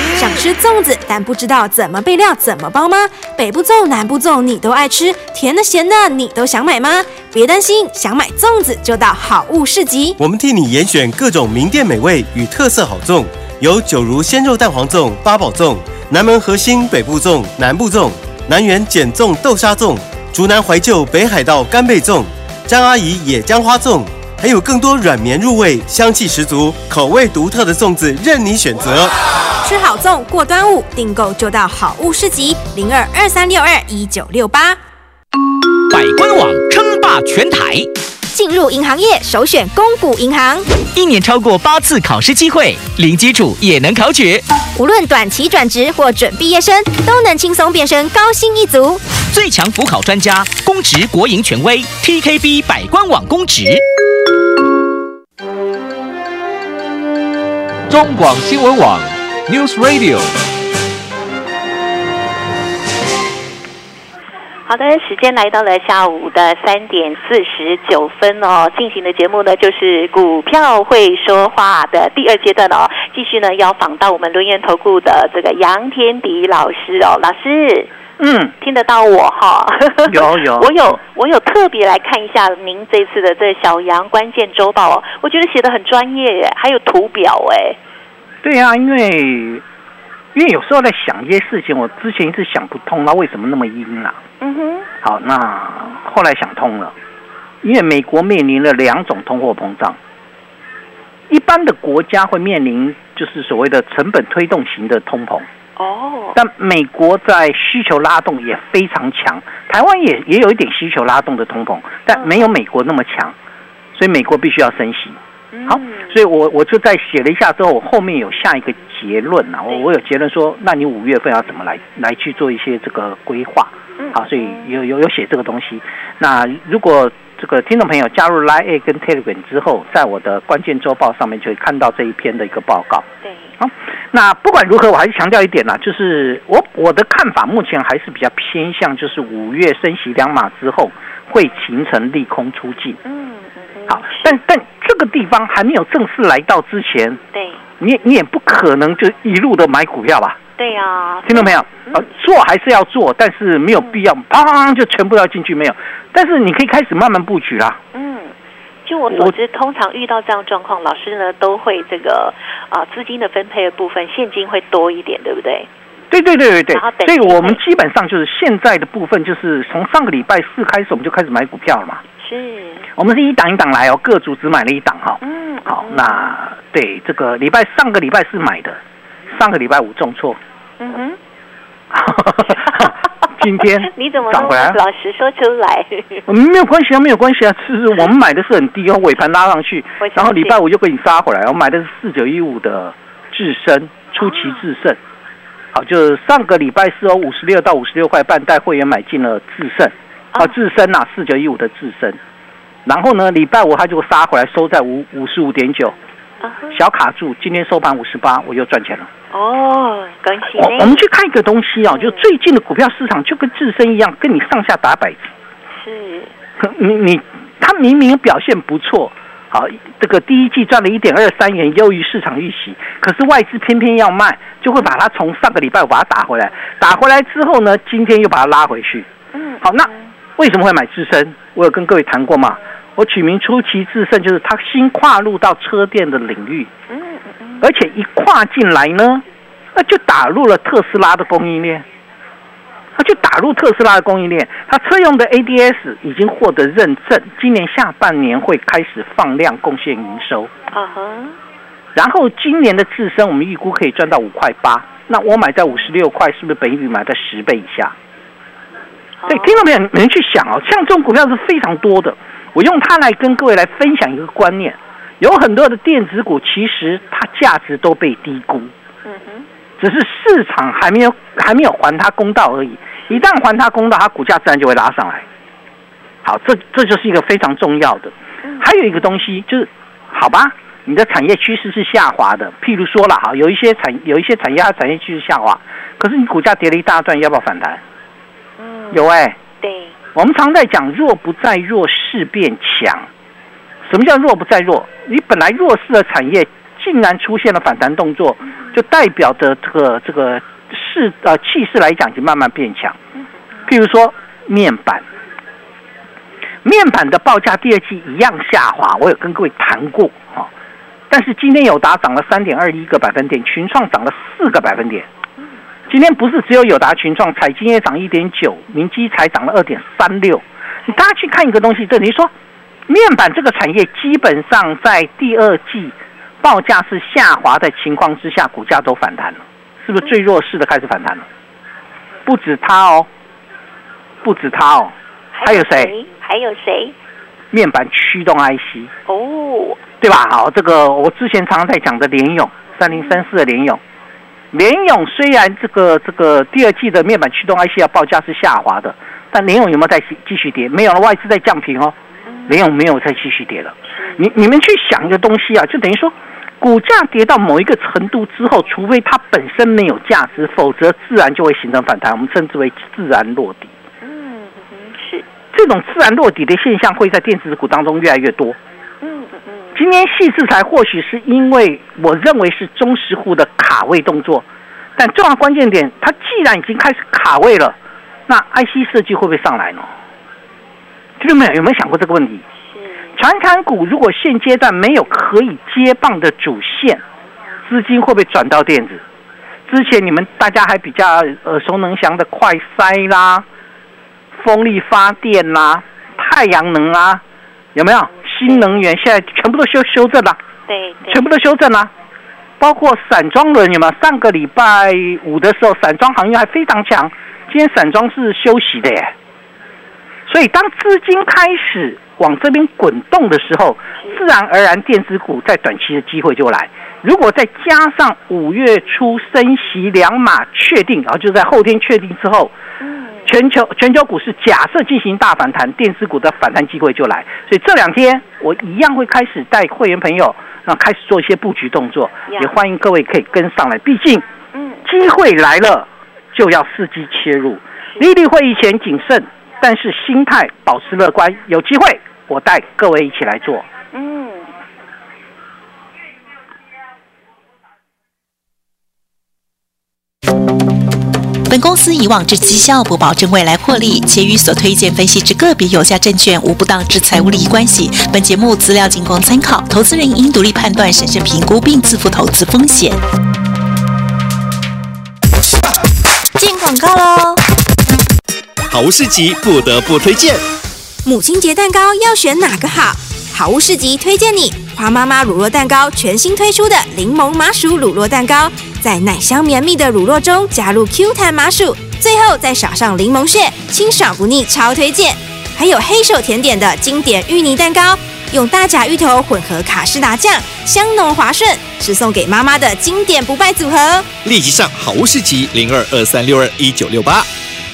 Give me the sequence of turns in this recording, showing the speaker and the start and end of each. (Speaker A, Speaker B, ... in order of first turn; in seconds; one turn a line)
Speaker A: 0.1-10.2
Speaker B: 10.2-29.1
Speaker A: 29.6-34.8
Speaker C: 35.9-37.9
Speaker A: 38.3-40.7
Speaker C: 40.9-44.4
Speaker A: 44.7-49.0
Speaker C: 49.3-53.8
Speaker D: 57.9-60.3
Speaker E: 64.7-77.9
Speaker F: 78.2-78.5
Speaker E: 78.6-87.8
Speaker F: 80.1-80.7
Speaker F: 88.4-89.6
Speaker F: 90.3-94.2
Speaker E: 94.4-94.9
Speaker F: 95.0-96.9
Speaker F: 97.6-100.0
Speaker F: 101.3-105.5
Speaker E: 105.8-106.4
Speaker F: 106.3-113.3
Speaker E: 112.1-112.4
Speaker F: 113.9-133.0
Speaker E: 115.5-116.2
Speaker E: 124.0-124.7
Speaker E: 133.2-133.5
Speaker F: 133.6-143.0
Speaker E: 143.0-144.4
Speaker F: 143.9-147.2
Speaker E: 147.3-147.6
Speaker F: 147.8-150.4
Speaker E: 150.6-152.0
Speaker F: 151.2-157.8
Speaker E: 157.9-158.3
Speaker E: 158.8-165.7
Speaker F: 159.1-159.3
Speaker F: 166.1-172.0
Speaker E: 166.7-167.6
Speaker E: 172.2-172.9
Speaker F: 172.9-178.8
Speaker E: 175.2-176.3
Speaker F: 179.3-180.4
Speaker E: 180.8-181.2
Speaker F: 181.9-184.8
Speaker E: 182.4-182.9
Speaker E: 183.6-186.2
Speaker F: 186.3-195.0
Speaker E: 190.0-190.6
Speaker E: 194.2-194.6
Speaker F: 195.7-202.2
Speaker F: 202.8-205.9
Speaker E: 206.4-206.8
Speaker F: 206.7-209.1
Speaker E: 209.3-211.0
Speaker F: 210.5-215.3
Speaker E: 211.9-212.2
Speaker E: 215.7-216.3
Speaker F: 216.6-229.1
Speaker E: 229.3-230.1
Speaker F: 229.6-236.7
Speaker E: 236.9-237.7
Speaker F: 237.6-239.2
Speaker F: 239.7-241.8
Speaker F: 242.9-250.5
Speaker E: 250.7-251.4
Speaker F: 251.9-257.9
Speaker E: 259.2-259.6
Speaker F: 259.3-268.7
Speaker E: 269.0-269.4
Speaker F: 269.8-275.2
Speaker F: 276.2-287.8
Speaker E: 288.6-289.0
Speaker F: 288.9-289.4
Speaker E: 289.6-289.9
Speaker F: 290.1-293.1
Speaker F: 293.9-303.0
Speaker F: 303.7-305.0
Speaker F: 306.6-310.5
Speaker F: 311.1-315.1
Speaker F: 315.9-322.3
Speaker F: 322.9-331.2
Speaker F: 332.2-333.1
Speaker F: 334.2-335.9
Speaker E: 335.3-336.9
Speaker F: 337.5-338.9
Speaker E: 339.1-339.8
Speaker F: 340.0-343.8
Speaker E: 342.9-343.2
Speaker F: 344.5-351.9
Speaker E: 352.3-352.6
Speaker F: 352.5-363.7
Speaker E: 353.9-354.2
Speaker E: 364.0-365.2
Speaker F: 365.5-368.6
Speaker E: 369.0-369.8
Speaker F: 369.7-374.4
Speaker F: 375.0-379.9
Speaker F: 381.2-382.4
Speaker E: 382.7-383.1
Speaker F: 383.1-387.0
Speaker F: 387.6-389.0
Speaker F: 389.7-393.4
Speaker F: 394.4-397.2
Speaker F: 397.7-400.4
Speaker E: 398.4-398.8
Speaker E: 400.7-401.2
Speaker F: 401.1-401.9
Speaker F: 402.6-409.1
Speaker F: 410.3-422.5
Speaker E: 422.8-423.3
Speaker F: 423.2-434.2
Speaker E: 432.3-432.5
Speaker E: 434.5-434.8
Speaker F: 434.8-443.7
Speaker E: 443.9-444.5
Speaker G: 451.5-463.0
Speaker A: 466.4-467.4
Speaker H: 468.7-470.4
Speaker A: 471.0-494.1
Speaker H: 494.2-497.3